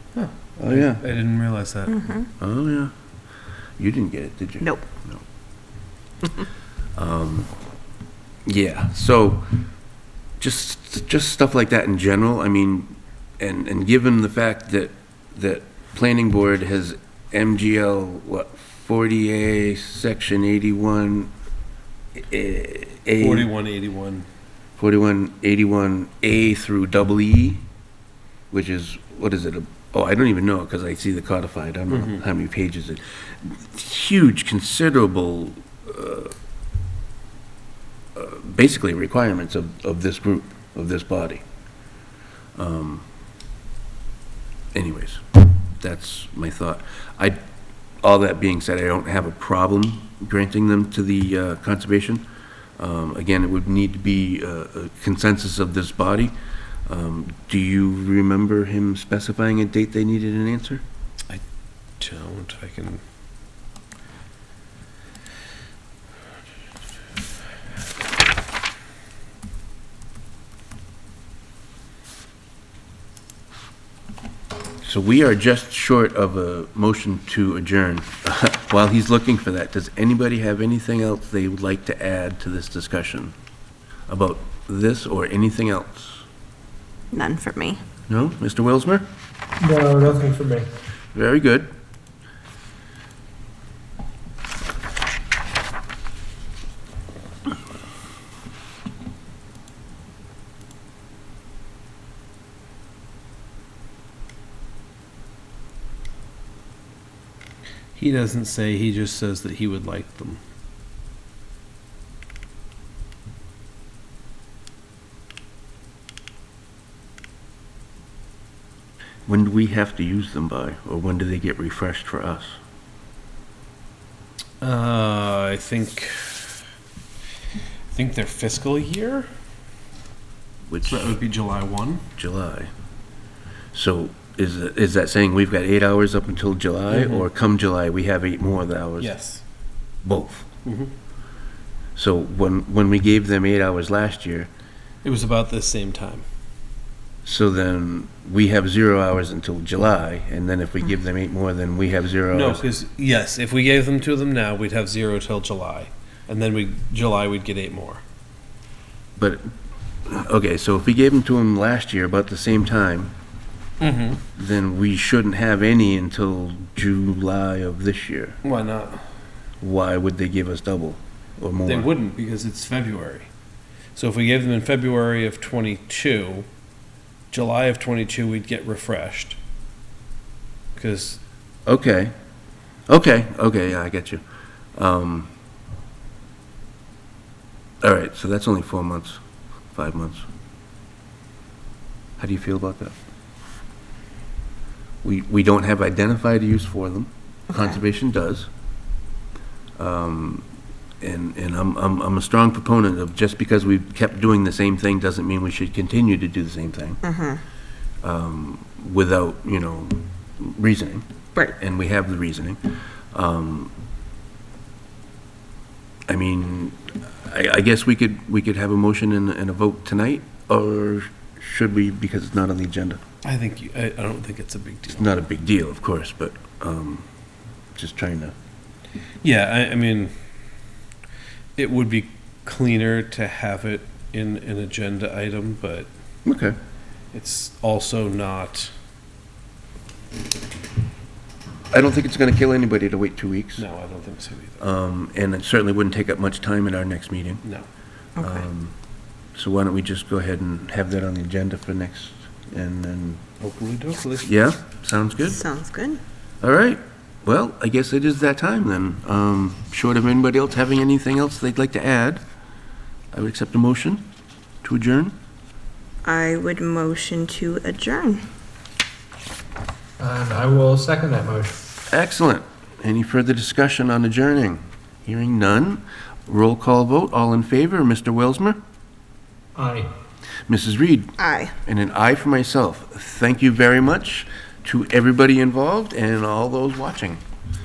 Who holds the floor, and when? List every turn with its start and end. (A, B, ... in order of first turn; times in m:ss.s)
0:00.1-0:02.0 A
0:00.6-0:01.0 B
0:01.9-0:02.3 C
0:02.4-0:02.9 B
0:03.8-0:05.2 B
0:06.9-0:07.5 B
0:08.4-0:09.5 B
0:10.4-0:21.3 B
0:22.1-0:23.5 B
0:23.2-0:24.3 A
0:24.8-0:27.6 B
0:28.5-0:36.3 B
0:31.9-0:32.2 A
0:38.1-0:41.4 B
0:42.6-0:43.0 B
0:44.7-0:45.2 B
0:45.8-0:47.4 B
0:48.0-0:52.2 B
0:52.8-0:56.3 B
0:56.9-1:00.8 B
1:02.0-1:03.0 A
1:14.8-1:23.3 B
1:24.1-1:26.2 B
1:27.1-1:27.8 C
1:28.1-1:29.1 B
1:29.6-1:30.7 D
1:31.1-1:31.7 B
1:48.0-1:50.4 A
1:59.2-2:02.6 B
2:04.6-2:06.6 A
2:07.9-2:09.2 A
2:10.7-2:11.2 B
2:10.8-2:12.0 A
2:12.2-2:12.7 B
2:13.7-2:19.1 B
2:16.9-2:17.3 A
2:19.0-2:19.4 A
2:20.0-2:20.5 B
2:20.6-2:20.9 A
2:22.0-2:24.5 B
2:25.0-2:26.2 A
2:27.2-2:32.6 B
2:32.3-2:38.0 A
2:39.2-2:39.5 B
2:40.0-2:43.1 B
2:43.8-2:44.2 A
2:44.3-2:48.4 B
2:48.4-2:49.0 A
2:49.6-2:51.9 B
2:51.6-2:53.3 A
2:53.9-2:56.4 A
2:57.3-2:59.4 A
3:00.8-3:01.2 A
3:01.6-3:02.1 B
3:02.9-3:04.2 B
3:04.8-3:05.3 B
3:07.8-3:09.2 B
3:09.7-3:10.2 B
3:12.2-3:12.9 B
3:15.0-3:18.5 B
3:19.8-3:20.4 B
3:21.0-3:27.0 B
3:27.0-3:27.4 C
3:28.0-3:32.6 B
3:33.1-3:33.7 B
3:36.1-3:43.0 B
3:43.2-3:45.2 A
3:44.9-3:47.0 B
3:47.8-3:48.3 B
3:49.2-3:50.1 A
3:51.6-3:55.9 A
3:56.2-3:56.6 B
3:57.1-3:58.7 A
4:01.7-4:03.6 B
4:03.6-4:04.6 A
4:04.6-4:07.4 B
4:08.2-4:08.4 C
4:08.2-4:08.7 B
4:09.3-4:13.2 B
4:13.4-4:14.3 A
4:14.2-4:15.4 B
4:15.2-4:16.0 C
4:16.4-4:22.2 B
4:23.1-4:24.0 B
4:24.6-4:25.1 B
4:26.0-4:28.2 C
4:30.0-4:31.6 D
4:31.9-4:38.6 B
4:39.6-4:39.9 D
4:40.5-4:47.2 B
4:41.2-4:41.5 C